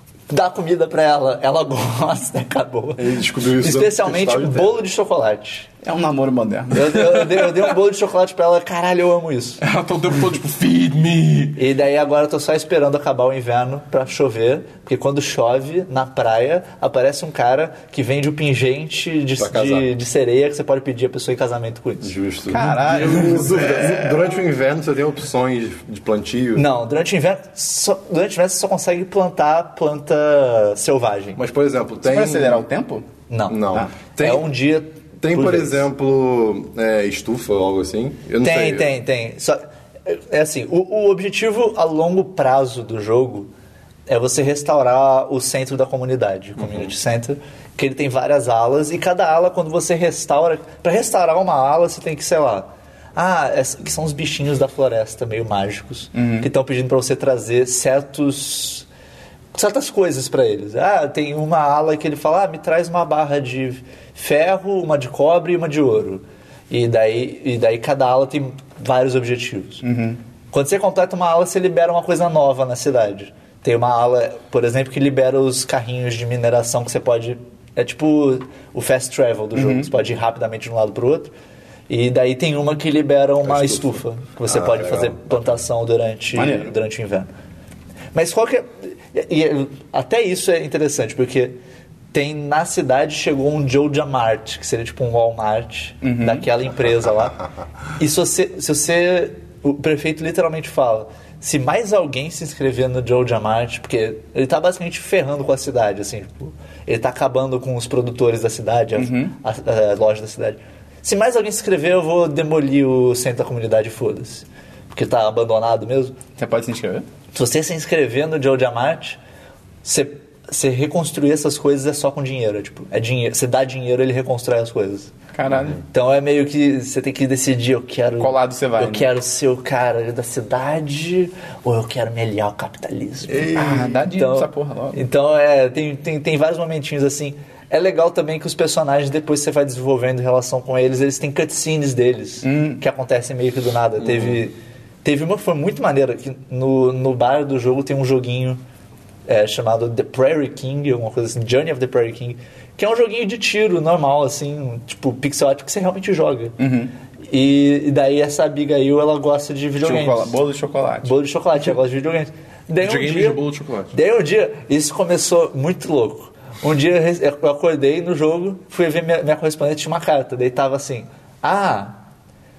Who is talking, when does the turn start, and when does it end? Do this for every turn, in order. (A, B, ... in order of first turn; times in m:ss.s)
0:00.3-0:05.7 A
0:03.0-0:04.8 B
0:05.8-0:07.0 C
0:06.7-0:09.6 A
0:09.6-0:11.6 D
0:11.6-0:22.1 A
0:19.4-0:19.9 B
0:22.0-0:26.7 B
0:22.5-0:23.5 C
0:22.8-0:24.4 D
0:26.5-0:31.4 A
0:31.4-0:32.6 B
0:32.0-0:33.0 C
0:33.3-0:33.6 A
0:33.5-0:34.5 B
0:34.2-0:35.8 A
0:35.2-0:38.9 B
0:38.4-0:43.5 A
0:44.1-0:58.9 A
0:46.6-0:46.9 B
0:56.1-0:56.5 C
0:59.5-1:09.8 A
1:09.8-1:10.2 C
1:10.5-1:21.3 A
1:19.5-1:19.9 C
1:21.9-1:27.3 A
1:23.4-1:25.6 B
1:26.3-1:26.7 C
1:28.1-1:31.6 A
1:32.1-1:37.4 A
1:36.0-1:36.4 C
1:37.0-1:37.5 B
1:38.0-1:56.1 A
1:49.0-1:49.3 C
1:56.4-1:57.0 C
1:57.3-1:59.2 A
1:59.8-2:05.1 A
2:05.3-2:05.8 C
2:05.9-2:28.6 A
2:08.2-2:09.1 C
2:13.3-2:14.0 B
2:13.5-2:15.0 C
2:22.4-2:22.8 C
2:24.0-2:24.4 B
2:29.2-2:36.6 A
2:36.6-2:36.9 C
2:37.3-2:40.3 A
2:39.8-2:41.1 C
2:41.0-2:43.4 A
2:42.8-2:43.9 D
2:43.9-2:52.0 A